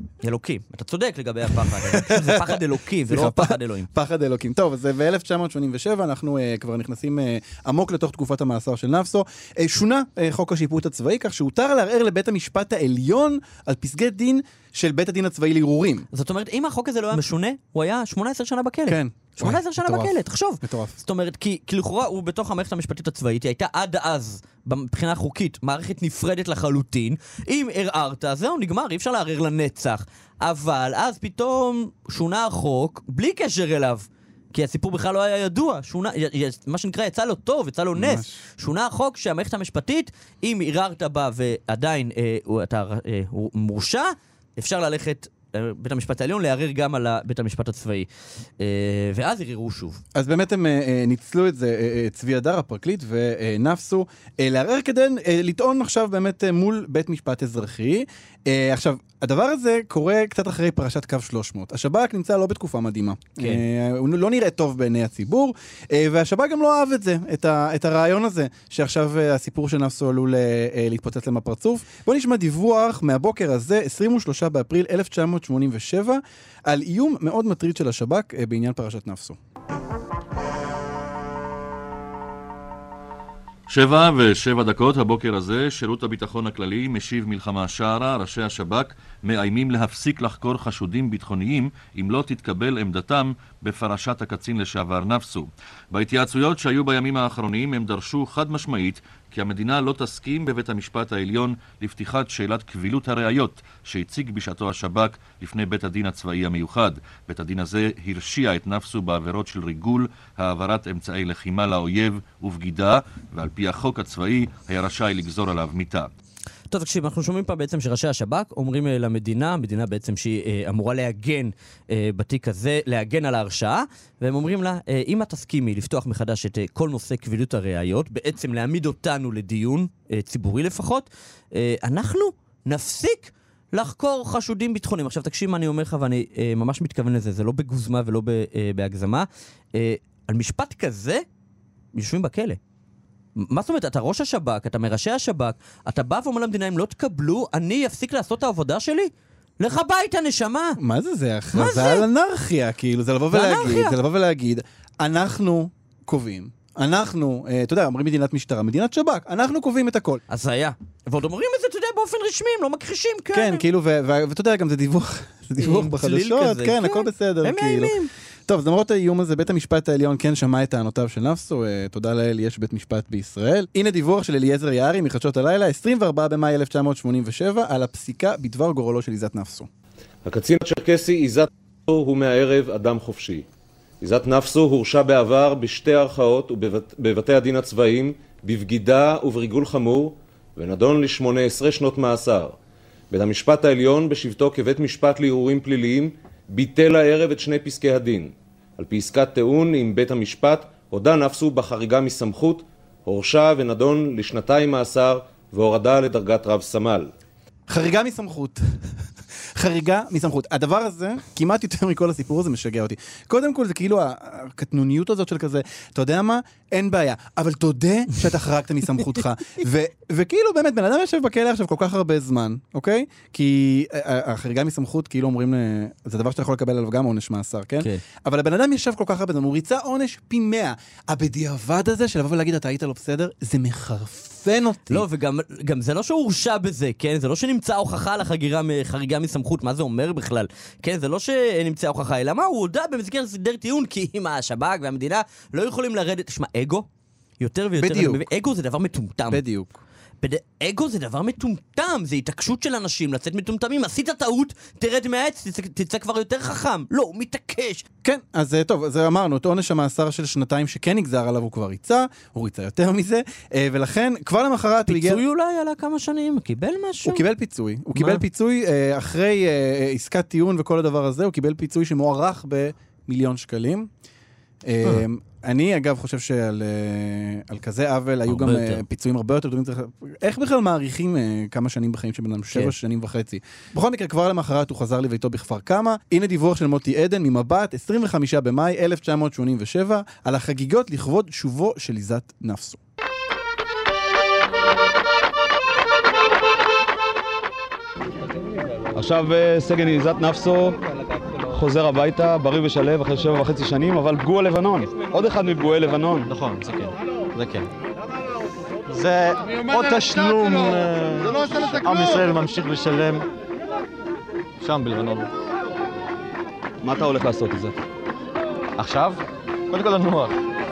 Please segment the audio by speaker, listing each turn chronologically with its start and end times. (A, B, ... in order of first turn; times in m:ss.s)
0:00.2-0:03.9 A
0:01.7-0:16.1 B
0:16.1-0:48.1 A
0:18.9-0:21.0 B
0:37.9-0:38.4 B
0:48.6-0:50.0 A
0:50.1-1:19.4 B
1:23.7-1:56.1 C
1:56.7-2:21.2 A
2:21.9-2:22.6 A
2:23.4-2:30.8 A
2:30.8-2:40.2 B
2:31.5-2:32.0 A
2:33.3-2:34.0 A
2:40.3-2:43.6 A
2:43.3-2:59.7 B
2:45.6-2:48.1 A
3:00.2-3:03.4 D
3:04.0-3:12.5 D
3:13.1-3:27.1 D
3:27.7-3:28.6 B
3:29.6-3:55.0 B
3:54.9-4:06.9 A
4:07.4-4:09.4 A
4:07.8-4:08.2 B
4:09.3-4:09.8 B
4:10.2-4:17.8 A
4:18.0-4:25.2 B
4:24.8-4:27.2 A
4:27.0-4:33.9 B
4:27.9-4:28.2 A
4:34.6-4:52.8 B
4:38.3-4:38.8 A
4:58.9-5:00.8 E
5:01.5-5:06.3 E
5:06.3-5:07.7 F
5:08.9-5:13.3 F
5:14.6-5:15.3 F
5:16.8-5:17.8 E
5:18.8-5:20.4 F